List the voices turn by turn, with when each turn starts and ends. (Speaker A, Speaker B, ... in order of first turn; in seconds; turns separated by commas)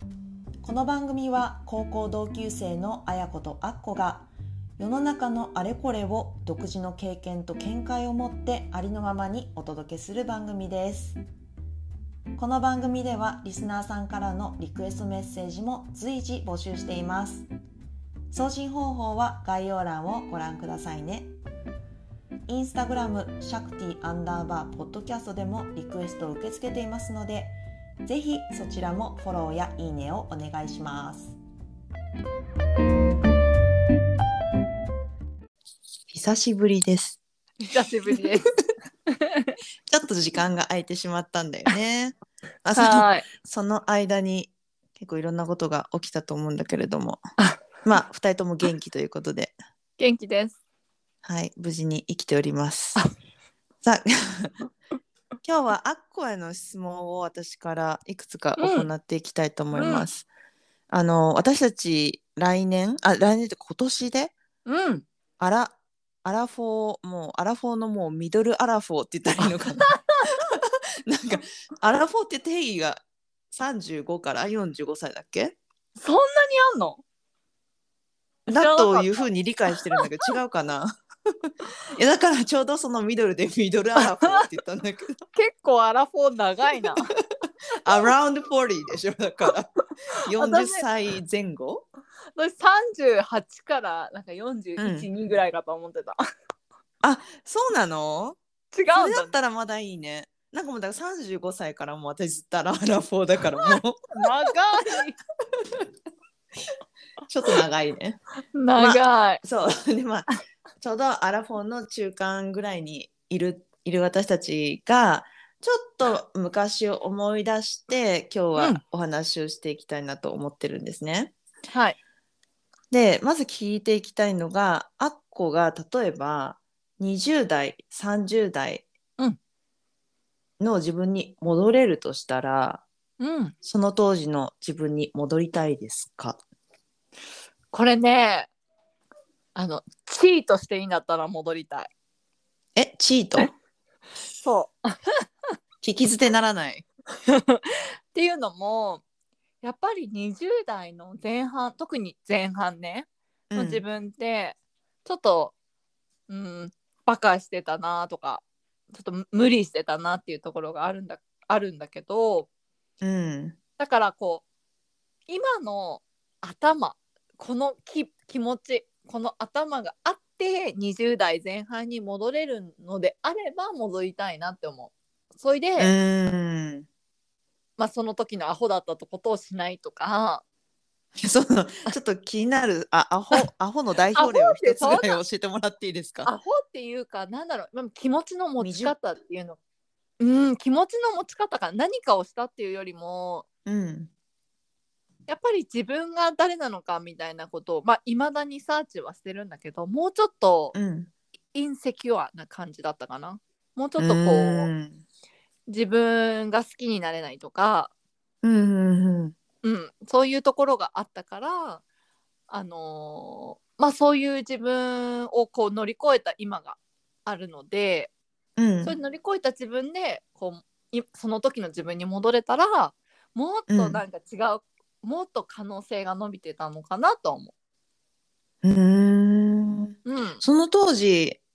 Speaker A: 0.6-11.2, Speaker A: 12.3-17.4, Speaker A: 18.3-21.3, Speaker A: 22.5-31.4, Speaker A: 36.1-37.2, Speaker B: 37.6-38.5, Speaker B: 39.1-39.5, Speaker A: 39.9-47.2, Speaker B: 42.7-43.2, Speaker A: 47.8-49.5, Speaker B: 50.0-50.6, Speaker A: 51.2-53.0, Speaker A: 53.8-54.5, Speaker A: 55.4-60.3, Speaker B: 58.6-58.9, Speaker B: 59.7-60.1, Speaker A: 60.9-64.3, Speaker B: 64.7-65.0, Speaker A: 65.4-69.9, Speaker B: 69.4-70.3, Speaker A: 70.5-75.6, Speaker B: 76.0-77.0, Speaker A: 78.5-80.9, Speaker B: 78.5-80.0, Speaker A: 81.9-85.2, Speaker B: 84.0-84.5, Speaker B: 85.3-87.1, Speaker A: 87.8-89.7, Speaker A: 90.2-91.9, Speaker B: 90.3-90.9, Speaker B: 92.3-96.2, Speaker A: 94.8-95.1, Speaker A: 97.0-98.4, Speaker B: 98.7-99.3, Speaker A: 98.9-104.0, Speaker B: 103.6-105.2, Speaker A: 107.3-108.2, Speaker B: 108.5-109.4, Speaker A: 108.8-110.3, Speaker A: 110.8-121.3, Speaker B: 121.7-122.0, Speaker A: 122.9-128.8, Speaker A: 130.6-132.8, Speaker B: 133.2-133.5, Speaker A: 133.6-136.4, Speaker B: 137.7-138.5, Speaker B: 139.5-141.9, Speaker A: 142.8-143.5, Speaker B: 144.4-145.0, Speaker A: 145.8-146.8, Speaker B: 147.3-149.0, Speaker B: 149.6-155.5, Speaker A: 153.5-153.8, Speaker B: 156.3-162.5, Speaker A: 163.0-163.6, Speaker B: 163.8-164.4, Speaker B: 165.3-175.9, Speaker A: 175.8-176.9, Speaker B: 177.8-180.4, Speaker A: 181.2-186.3, Speaker B: 184.1-185.2, Speaker B: 186.2-189.6, Speaker A: 188.6-188.9, Speaker B: 190.2-193.4, Speaker A: 193.7-194.1, Speaker B: 195.3-200.7, Speaker A: 200.7-201.1, Speaker B: 201.5-204.7, Speaker A: 204.0-205.0, Speaker B: 205.7-207.9, Speaker A: 208.4-209.3, Speaker B: 209.6-211.8, Speaker B: 212.5-218.1, Speaker A: 218.6-218.9, Speaker B: 218.8-227.5, Speaker A: 223.7-224.0, Speaker A: 228.6-231.4, Speaker B: 230.0-230.4